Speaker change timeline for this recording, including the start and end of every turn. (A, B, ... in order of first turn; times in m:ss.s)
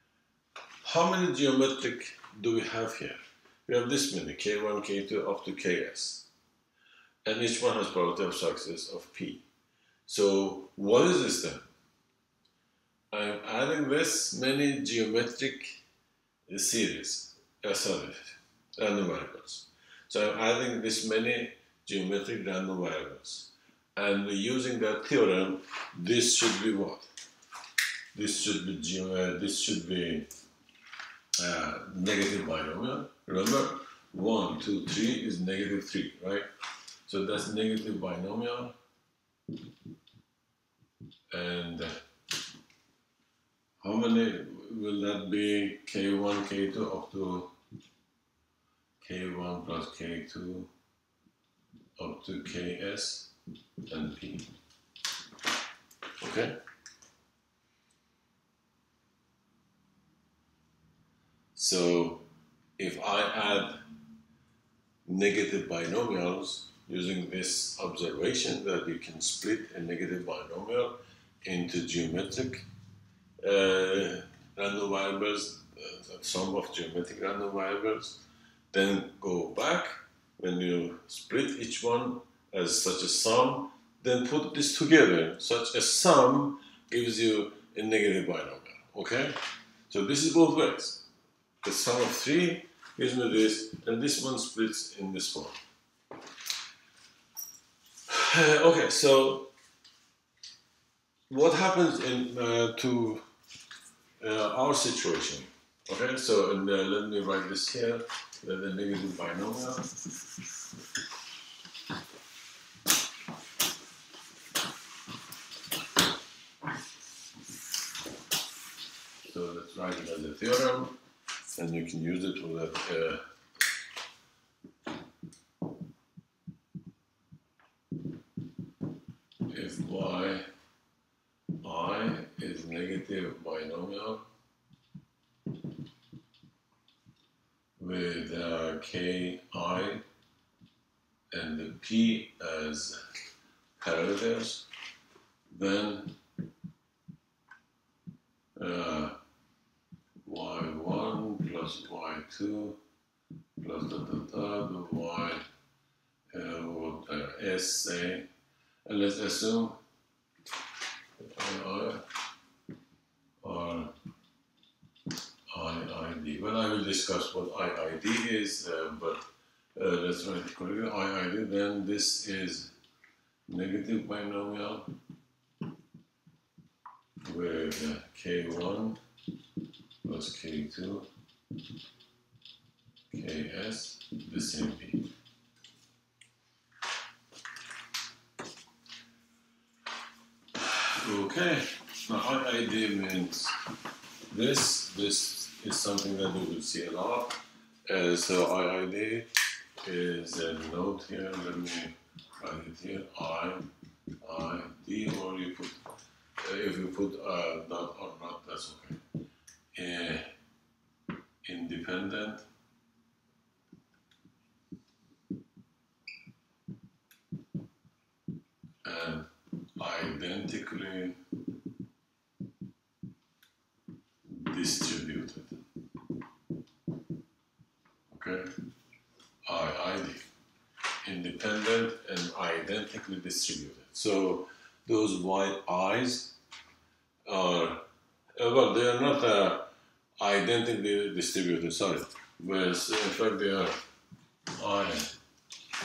0:00.8-0:06.3 A
0:07.3-0:09.4 A
0:10.1-0:11.6 A
0:13.1-0:15.8 A
0:16.5-0:27.1 A
0:28.1-0:30.3 A
0:31.4-0:36.5 A
0:37.1-0:38.8 A
0:41.3-0:42.0 A
0:43.8-0:47.5 A
0:49.0-0:50.7 A
0:52.0-0:53.3 A
0:53.9-0:54.5 A
0:56.2-0:56.6 A
1:01.6-1:02.2 A
1:02.8-1:03.8 A
1:05.1-1:12.6 A
1:13.4-1:18.2 A
1:18.7-1:29.4 A
1:29.9-1:31.0 A
1:31.6-1:35.6 A
1:38.1-1:39.5 A
1:41.3-1:43.2 A
1:44.2-1:49.9 A
1:59.2-2:01.0 A
2:01.6-2:03.2 A
2:09.5-2:10.5 A
2:11.6-2:14.2 A
2:17.8-2:20.0 A
2:21.3-2:23.0 A
2:23.8-2:24.6 A
2:25.5-2:26.2 A
2:28.6-2:29.2 A
2:30.2-2:32.8 A
2:33.6-2:35.4 A
2:36.3-2:38.3 A
2:38.9-2:39.8 A
2:41.2-2:42.1 A
2:43.4-2:43.9 A
2:45.5-2:49.2 A
2:49.8-2:52.7 A
2:53.5-2:54.9 A
2:57.2-2:59.0 A
3:00.0-3:01.1 A
3:03.1-3:05.1 A
3:10.6-3:13.6 A
3:14.3-3:19.3 A
3:19.8-3:23.7 A
3:24.2-3:25.8 A
3:26.4-3:29.0 A
3:29.7-3:30.3 A
3:31.4-3:32.4 A
3:38.8-3:41.2 A
3:44.3-3:45.6 A
3:48.1-3:48.5 A
3:49.5-3:50.3 A
3:51.0-3:56.4 A
3:57.3-3:57.9 A
3:58.4-4:03.8 A
4:04.6-4:05.1 A